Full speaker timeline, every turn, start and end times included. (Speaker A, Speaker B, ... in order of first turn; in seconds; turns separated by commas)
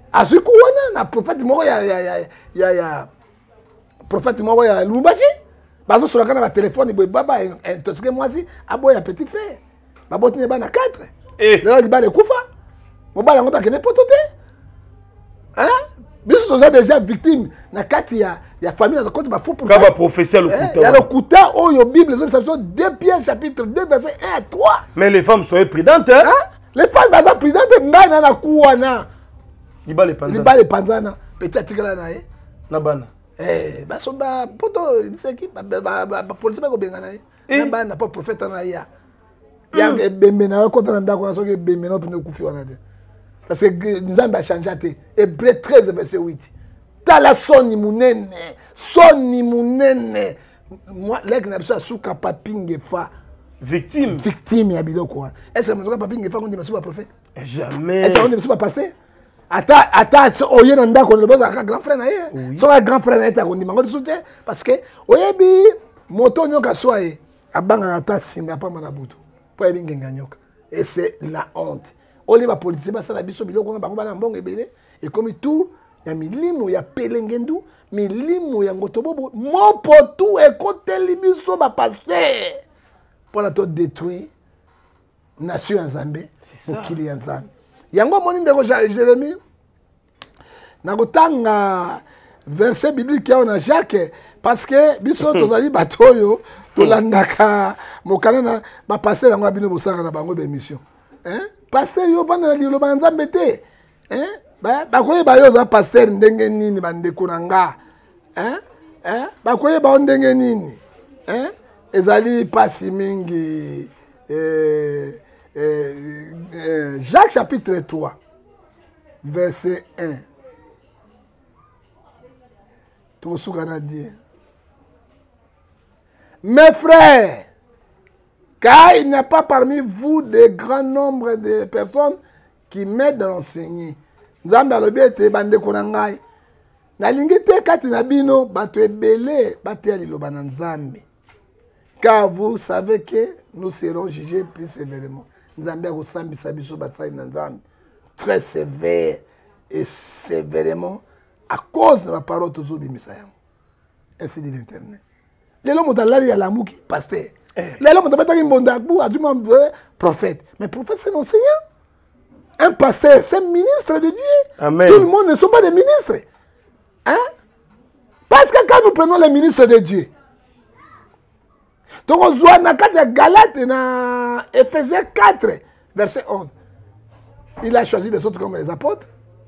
Speaker A: 0.1-3.1, Speaker A: 4.1-5.3, Speaker A: 5.9-11.1, Speaker B: 11.4-11.7, Speaker A: 11.6-12.4, Speaker A: 13.1-14.2, Speaker A: 15.5-19.9, Speaker B: 19.6-21.1, Speaker A: 20.5-24.9, Speaker B: 24.9-26.3, Speaker A: 26.2-29.1, Speaker B: 29.9-30.5, Speaker A: 30.2-32.2, Speaker B: 32.7-33.1, Speaker A: 33.4-38.9, Speaker B: 37.5-37.7, Speaker A: 39.7-42.8, Speaker B: 39.7-40.0, Speaker A: 43.5-46.5, Speaker A: 47.0-53.1, Speaker B: 53.6-54.2, Speaker A: 54.1-57.1, Speaker B: 57.4-58.3, Speaker A: 58.0-58.9, Speaker A: 59.5-82.6, Speaker B: 62.3-62.6, Speaker A: 83.3-84.3, Speaker A: 85.4-89.4, Speaker B: 86.5-87.0, Speaker A: 90.8-107.8, Speaker B: 95.2-95.5, Speaker A: 108.3-118.2, Speaker A: 119.2-120.2, Speaker A: 123.2-124.1, Speaker A: 126.4-127.5, Speaker A: 128.6-136.2, Speaker A: 137.0-141.0, Speaker A: 142.0-147.6, Speaker A: 148.2-153.3, Speaker A: 154.2-155.0, Speaker A: 155.6-161.6, Speaker A: 162.6-166.2, Speaker B: 164.6-165.1, Speaker A: 168.3-170.1, Speaker A: 172.1-176.5, Speaker A: 177.6-179.1